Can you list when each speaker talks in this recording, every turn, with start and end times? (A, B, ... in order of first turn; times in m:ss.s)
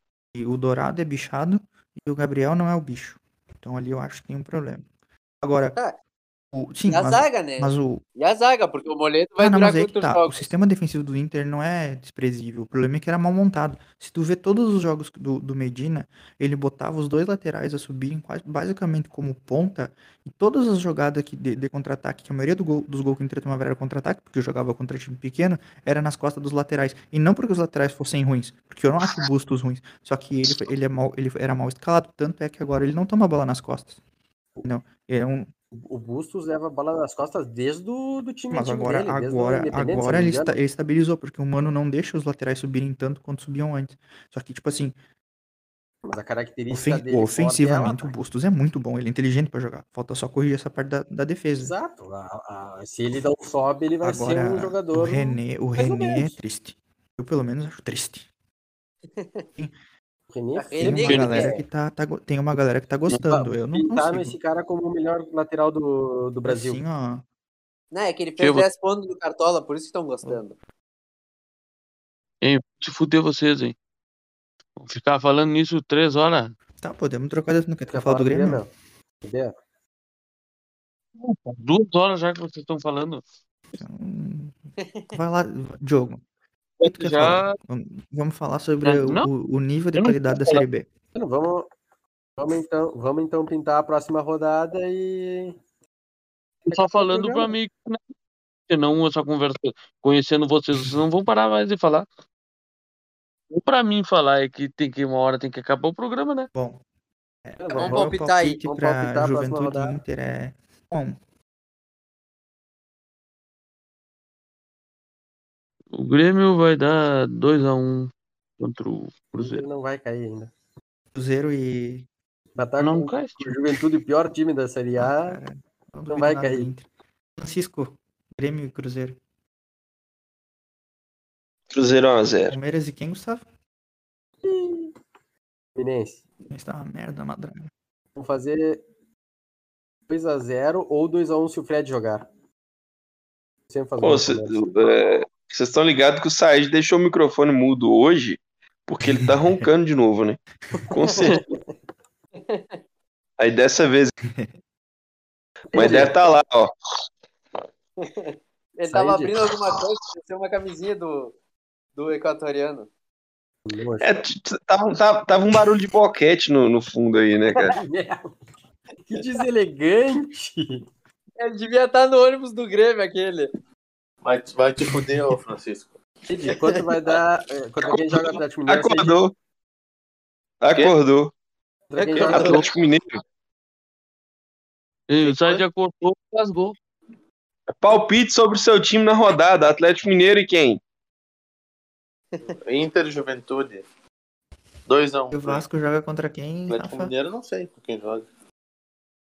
0:00.3-0:04.8 A
0:05.4-0:05.8 A
0:06.5-0:08.0 A
0:06.9-0:10.4 B
0:09.4-0:34.0 A
0:34.6-0:35.5 A
0:35.8-0:40.6 C
0:38.5-0:45.0 A
0:46.0-0:48.1 C
0:46.7-0:51.7 A
0:51.6-0:56.4 C
0:54.0-0:58.3 A
0:59.1-0:59.4 B
1:00.3-1:01.6 C
1:00.5-1:01.6 B
1:00.8-1:04.4 A
1:03.1-1:06.8 C
1:06.4-1:07.2 A
1:07.9-1:10.5 B
1:08.4-1:08.7 D
1:12.4-1:13.8 D
1:14.8-1:16.5 D
1:16.8-1:18.6 A
1:17.9-1:18.7 C
1:19.2-1:19.5 C
1:21.2-1:23.2 D
1:23.8-1:24.6 A
1:25.1-1:26.2 A
1:26.8-1:27.6 D
1:26.8-1:30.8 A
1:28.8-1:29.3 D
1:30.0-1:30.6 D
1:31.1-1:31.7 C
1:32.4-1:35.6 C
1:36.6-1:37.5 C
1:36.7-1:38.0 D
1:38.7-1:42.1 D
1:43.5-1:46.5 D
1:46.5-1:46.8 A
1:47.4-1:51.2 A
1:47.6-1:50.0 C
1:47.7-1:48.6 B
1:55.9-1:59.6 D
1:59.3-2:00.5 C
2:01.1-2:02.0 A
2:02.6-2:05.4 C
2:02.8-2:03.6 D
2:05.0-2:09.2 A
2:06.1-2:06.7 C
2:11.7-2:12.5 E
2:12.3-2:13.4 A
2:14.4-2:14.9 C
2:15.8-2:16.2 C
2:16.4-2:17.7 A
2:18.2-2:18.8 C
2:20.1-2:22.3 C
2:23.7-2:24.7 C
2:24.0-2:30.4 E
2:29.0-2:29.7 A
2:30.9-2:31.5 E
2:31.1-2:31.4 B
2:32.4-2:32.8 B
2:33.4-2:34.1 E
2:35.7-2:36.2 C
2:35.7-2:36.7 E
2:38.0-2:41.3 B
2:38.9-2:39.3 C
2:42.0-2:42.9 B
2:43.6-2:44.2 C
2:44.0-2:47.8 E
2:47.7-2:48.3 C
2:49.0-2:50.9 C
2:51.4-2:53.5 B
2:54.2-2:56.6 F
2:56.3-2:59.2 C
2:58.1-2:59.3 E
3:00.6-3:01.3 E
3:01.9-3:02.7 C
3:02.0-3:02.6 F
3:02.2-3:03.2 E
3:05.1-3:06.8 D
3:05.3-3:05.6 E
3:07.8-3:10.8 E
3:12.4-3:13.8 F
3:14.9-3:15.6 F
3:15.3-3:17.1 A
3:16.7-3:18.3 F